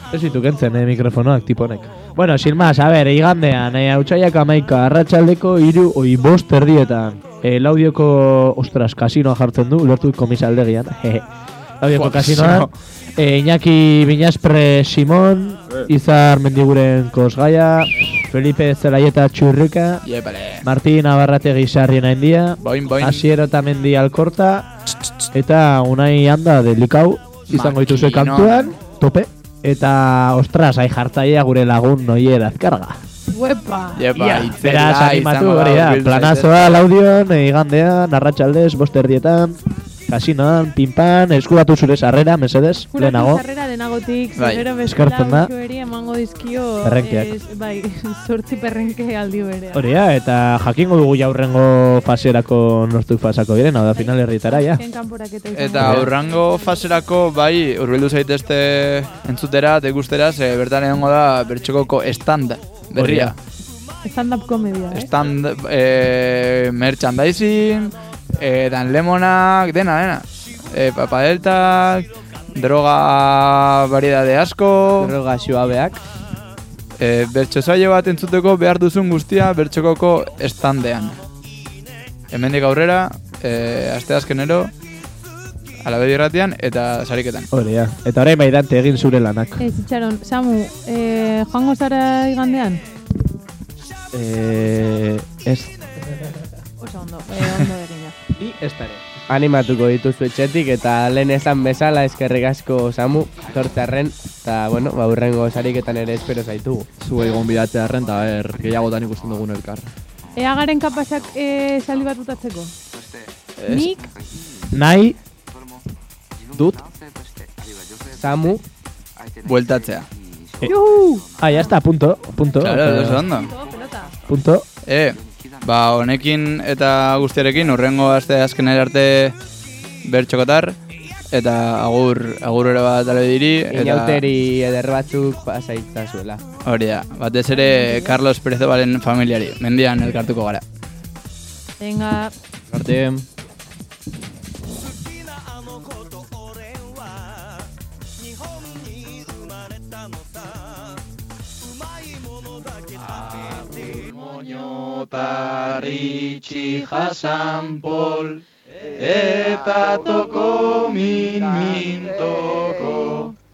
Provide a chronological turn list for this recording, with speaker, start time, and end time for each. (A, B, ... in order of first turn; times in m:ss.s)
0:00.1-0:11.3 A
0:11.8-0:20.0 A
0:12.0-0:12.7 B
0:20.0-0:20.7 B
0:20.6-0:24.7 A
0:22.6-0:23.3 B
0:25.3-0:33.0 A
0:27.5-0:28.7 B
0:33.3-0:34.1 C
0:34.0-0:36.8 B
0:34.2-0:43.4 A
0:42.9-0:49.9 C
0:44.4-0:44.7 B
0:44.9-0:45.5 A
0:46.8-0:47.3 A
0:49.7-0:54.8 A
0:54.0-0:56.9 C
0:55.6-1:03.4 B
0:55.8-0:56.1 A
1:03.0-1:03.3 A
1:04.0-1:05.1 C
1:04.9-1:15.2 B
1:15.0-1:16.0 D
1:17.0-1:21.2 B
1:22.3-1:24.7 B
1:25.8-1:27.5 B
1:27.5-1:29.7 A
1:29.6-1:32.8 C
1:34.1-1:35.7 E
1:36.8-1:38.2 C
1:38.4-1:39.0 A
1:39.3-1:46.9 D
1:47.0-1:49.9 E
1:50.4-1:52.7 C
1:53.6-1:53.9 B
1:53.7-1:54.1 C
1:54.7-1:55.2 A
1:58.2-1:58.6 D
1:59.4-2:00.1 B
2:00.6-2:01.3 C
2:01.4-2:03.3 A
2:02.6-2:03.5 B
2:03.3-2:04.2 C
2:04.3-2:04.6 A
2:04.9-2:09.4 B
2:10.0-2:10.8 B
2:11.3-2:14.2 B
2:13.7-2:16.4 D
2:16.6-2:20.6 B
2:17.5-2:18.2 C
2:21.8-2:22.3 C
2:22.7-2:23.2 E
2:33.2-2:38.4 B
2:39.0-2:43.3 B